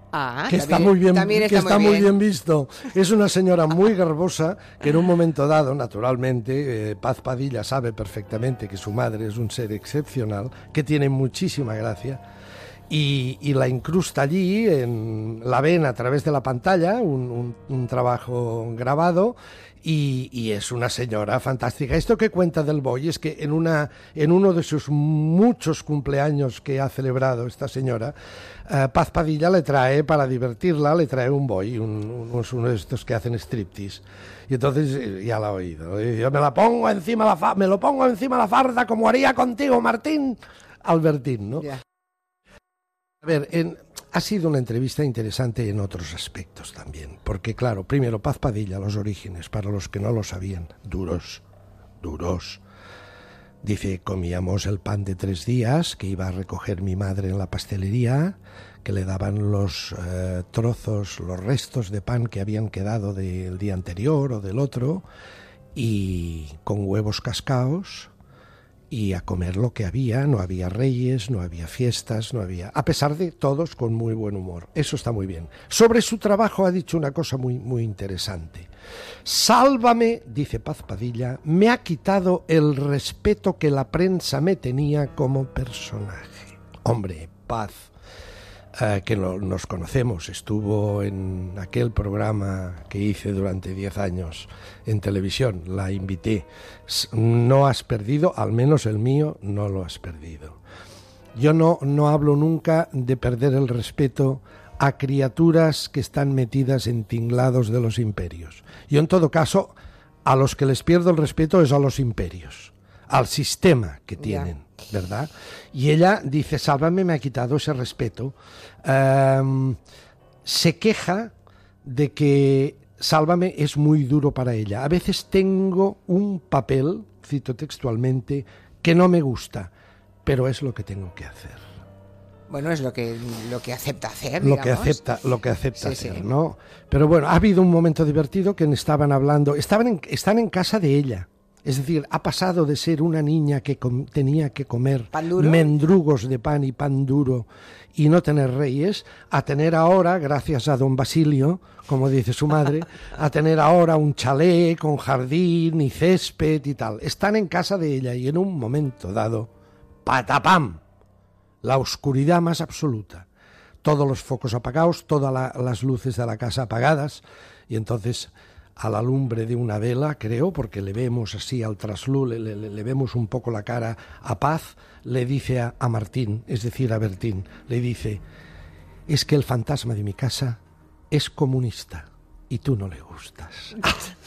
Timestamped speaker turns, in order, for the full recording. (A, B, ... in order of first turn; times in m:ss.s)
0:00.1-0:02.1 A
0:00.5-0:12.2 B
0:12.9-0:28.2 B
0:28.7-0:41.7 B
0:43.2-0:51.4 B
0:52.0-0:52.6 B
0:53.6-1:05.0 B
1:05.8-1:08.1 B
1:08.9-1:18.7 B
1:19.2-1:27.9 B
1:28.8-1:40.6 B
1:41.4-1:59.8 B
1:54.2-1:54.5 A
2:00.4-2:01.3 B
2:01.8-2:09.7 B
2:10.3-2:11.6 B
2:12.5-2:15.0 A
2:14.4-2:39.5 B
2:15.8-2:16.2 A
2:25.1-2:25.7 A
2:40.0-2:40.8 B
2:41.6-2:43.3 B
2:43.8-2:58.2 B
2:59.1-3:00.6 B
3:01.1-3:04.1 B